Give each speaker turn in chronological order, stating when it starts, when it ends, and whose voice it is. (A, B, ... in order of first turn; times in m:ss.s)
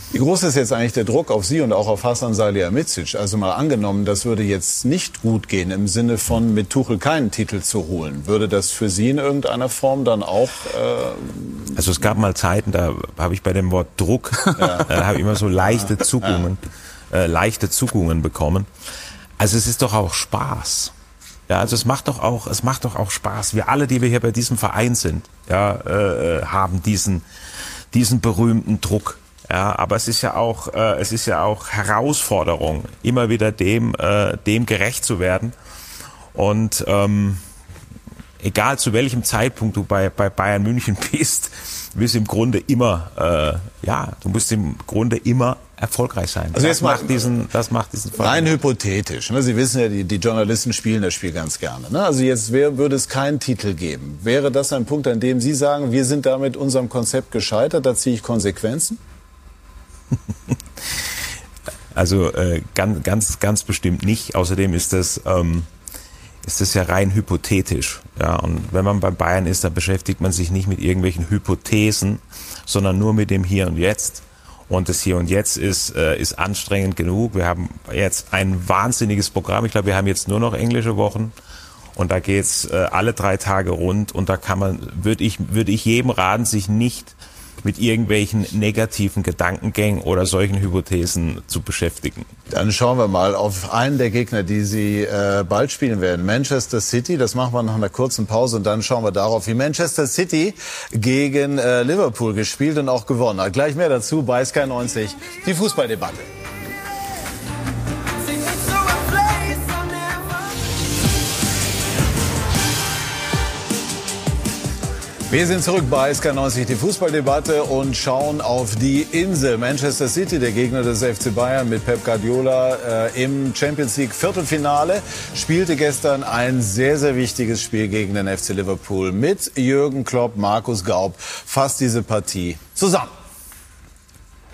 0:00.1-0:11.7 A
0:11.7-0:16.6 B
0:14.5-0:15.0 A
0:15.6-0:16.5 A
0:17.1-0:18.7 B
0:19.4-0:20.9 B
0:21.5-0:27.2 B
0:27.9-0:35.5 B
0:36.3-0:37.4 B
0:38.4-0:48.6 B
0:46.5-0:47.4 A
0:48.2-0:59.0 A
1:01.9-1:05.7 B
1:06.4-1:21.3 B
1:22.0-1:32.3 B
1:32.5-1:46.3 A
1:55.3-2:13.1 A